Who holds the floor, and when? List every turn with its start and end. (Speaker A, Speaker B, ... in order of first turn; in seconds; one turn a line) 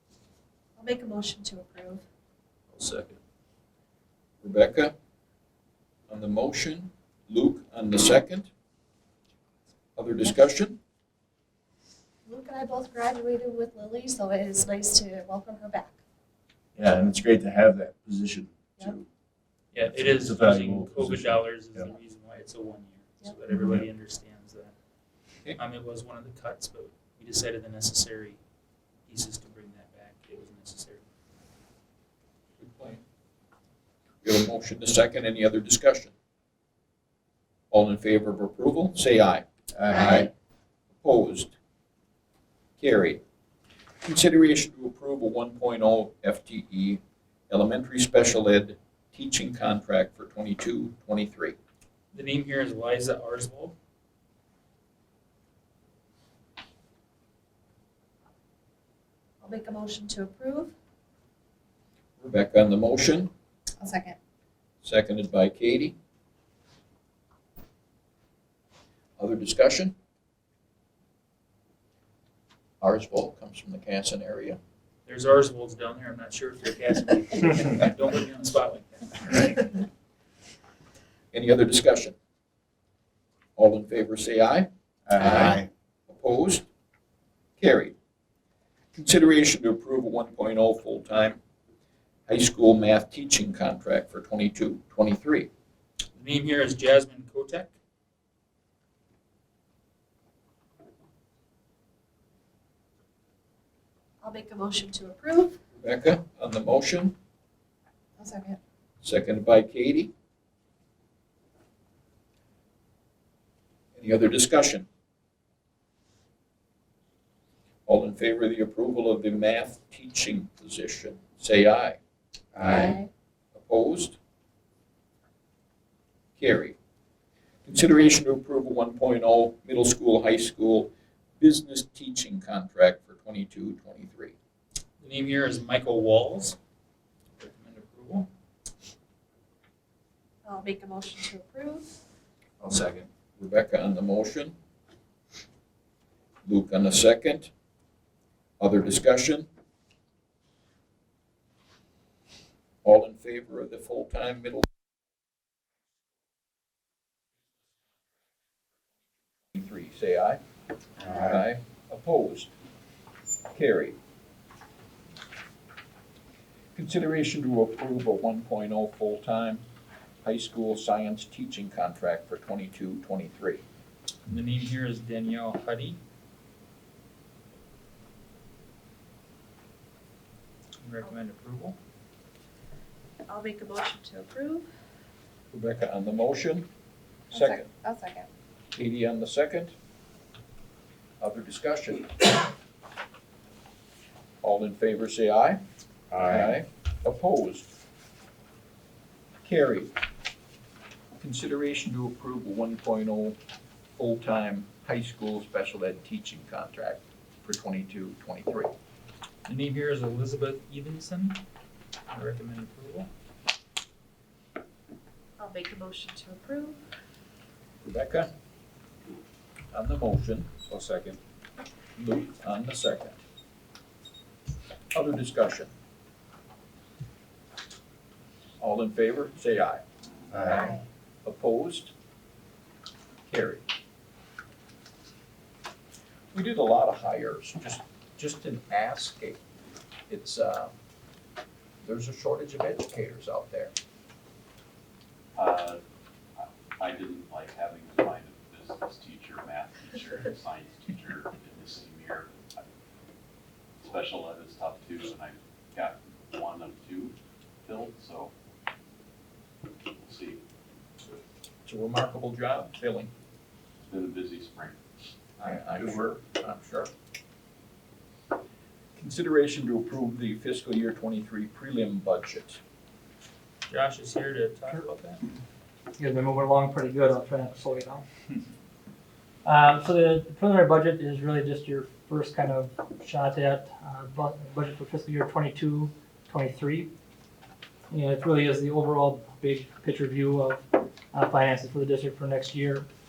Speaker A: 0.8-2.0
Speaker B: 2.7-3.2
Speaker B: 4.4-4.9
Speaker B: 6.1-8.5
Speaker B: 10.0-10.8
Speaker A: 12.3-15.9
Speaker C: 16.8-19.1
Speaker D: 19.7-24.7
Speaker C: 19.8-21.9
Speaker D: 25.6-28.4
Speaker D: 29.1-31.0
Speaker B: 32.6-33.0
Speaker B: 34.2-36.1
Speaker B: 37.7-40.3
Speaker C: 39.8-40.1
Speaker B: 41.0-41.5
Speaker B: 42.8-43.2
Speaker B: 44.0-51.6
Speaker D: 52.1-53.8
Speaker A: 59.4-60.7
Speaker B: 62.2-63.3
Speaker A: 63.8-64.2
Speaker B: 64.8-66.0
Speaker B: 69.2-70.0
Speaker B: 72.8-74.6
Speaker D: 75.1-79.8
Speaker B: 81.3-82.2
Speaker B: 83.6-86.7
Speaker C: 85.1-85.7
Speaker B: 87.6-88.0
Speaker B: 88.9-91.4
Speaker B: 92.3-95.5
Speaker D: 96.2-97.7
Speaker A: 104.2-105.6
Speaker B: 105.8-107.2
Speaker A: 108.2-108.6
Speaker B: 109.0-110.1
Speaker B: 114.0-114.9
Speaker B: 117.9-122.0
Speaker A: 122.6-123.1
Speaker B: 123.5-124.2
Speaker B: 126.4-126.8
Speaker B: 127.7-134.3
Speaker D: 135.0-136.6
Speaker D: 137.4-138.3
Speaker A: 140.4-142.0
Speaker B: 142.6-144.6
Speaker B: 146.4-147.5
Speaker B: 148.6-149.5
Speaker B: 152.8-154.7
Speaker B: 159.5-160.4
Speaker B: 161.2-162.5
Speaker B: 163.5-164.0
Speaker B: 166.8-169.6
Speaker B: 170.2-173.6
Speaker D: 174.3-176.0
Speaker D: 180.8-181.8
Speaker A: 183.3-184.7
Speaker B: 185.5-186.7
Speaker B: 187.3-187.7
Speaker A: 187.3-188.3
Speaker B: 188.7-189.7
Speaker B: 191.2-192.1
Speaker B: 194.4-195.6
Speaker B: 196.2-197.7
Speaker B: 199.4-199.9
Speaker B: 201.2-203.4
Speaker B: 203.9-208.7
Speaker D: 209.5-211.4
Speaker D: 212.1-213.1
Speaker A: 215.4-216.8
Speaker B: 217.8-218.3
Speaker B: 219.7-220.6
Speaker B: 222.0-223.2
Speaker B: 224.9-225.7
Speaker B: 228.6-229.8
Speaker A: 230.5-230.8
Speaker B: 231.2-231.9
Speaker B: 233.3-233.7
Speaker B: 236.3-239.4
Speaker B: 240.1-240.7
Speaker B: 241.8-243.7
Speaker E: 245.4-245.8
Speaker E: 246.4-252.6
Speaker E: 253.8-258.3
Speaker E: 260.0-260.4
Speaker B: 261.6-263.1
Speaker E: 263.9-264.8
Speaker B: 265.4-266.9
Speaker B: 269.0-272.6
Speaker D: 273.7-275.2
Speaker F: 276.0-278.0
Speaker F: 279.4-286.9
Speaker F: 287.9-292.9